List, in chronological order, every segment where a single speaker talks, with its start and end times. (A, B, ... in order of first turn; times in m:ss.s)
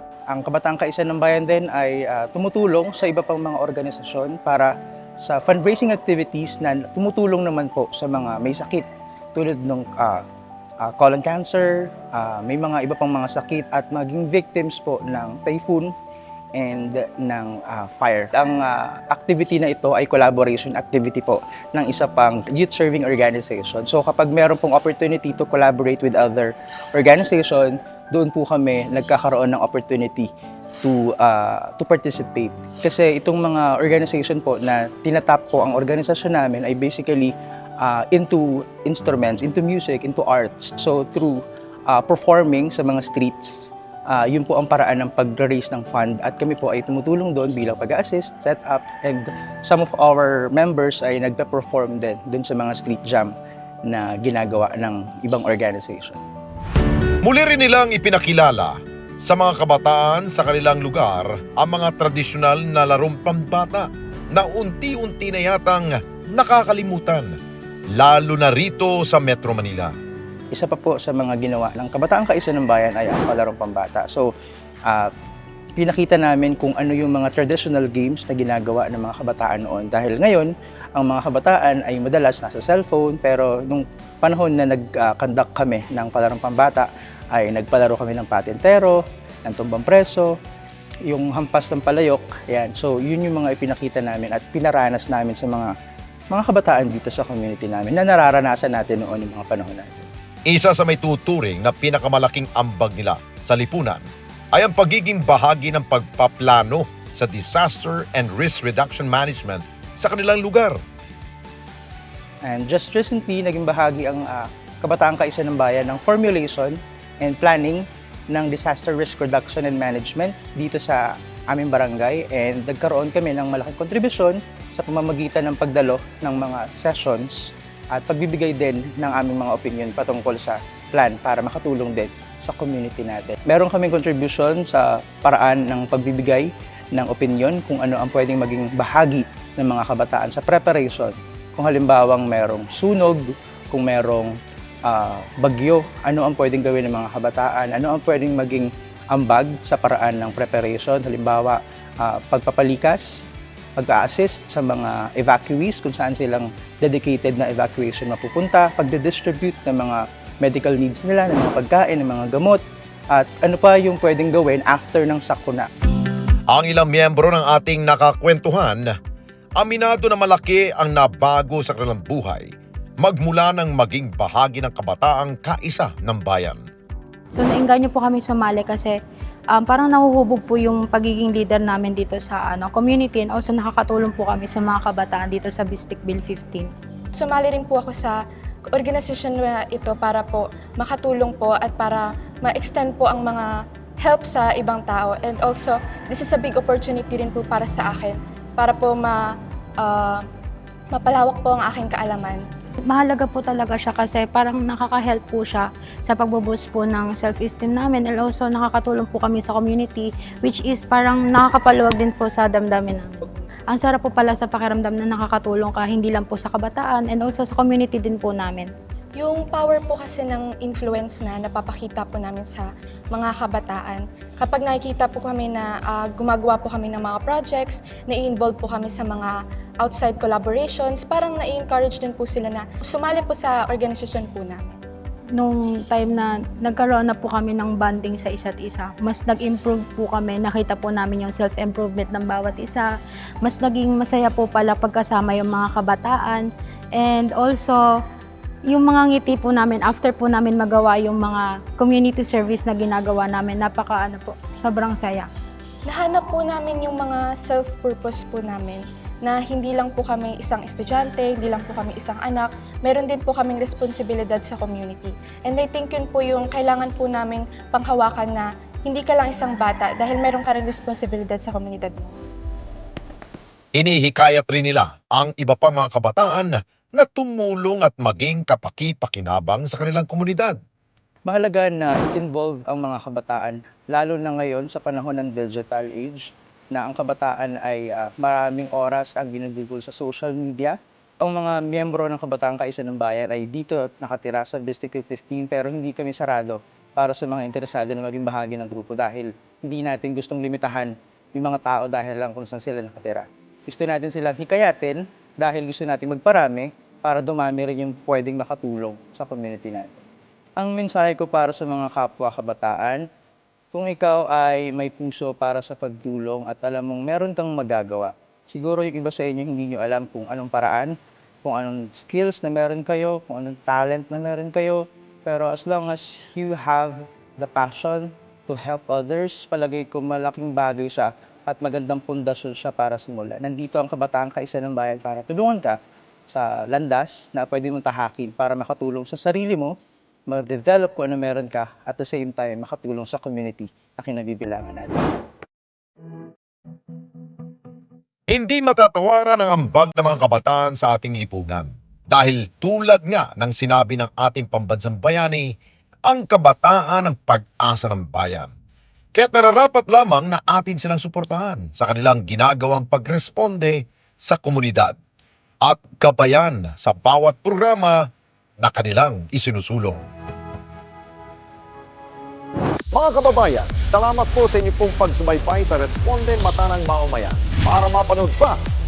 0:00.3-0:10.2 A
0:10.8-0:15.9 A
0:16.5-0:30.3 A
0:30.8-0:56.2 A
0:57.2-1:07.3 B
1:08.0-1:09.9 B
1:10.5-1:14.3 A
1:14.8-1:15.1 A
1:15.8-1:30.3 A
1:31.0-1:35.7 A
1:36.3-1:40.1 A
1:40.5-1:50.8 B
1:52.4-2:45.7 A
2:46.5-2:48.9 B
2:49.6-2:52.5 B
2:53.0-2:56.6 B
2:57.3-2:58.9 C
2:59.5-3:06.7 C
3:07.2-3:08.2 D
3:08.7-3:20.3 D
3:20.9-3:22.4 D
3:22.9-3:38.7 C
3:39.2-3:54.8 D
3:55.4-4:02.9 C
4:03.4-4:07.8 C
4:08.7-4:15.3 C
4:15.8-4:32.1 D
4:33.7-4:40.6 B
4:41.2-5:10.0 A
5:10.6-5:13.1 A
5:13.7-5:39.8 A
5:40.3-5:45.2 A
5:48.3-5:55.5 B
5:56.1-5:58.5 B
5:59.1-6:05.0 B
6:05.6-6:08.1 B
6:08.6-6:10.0 B
6:12.9-6:18.6 E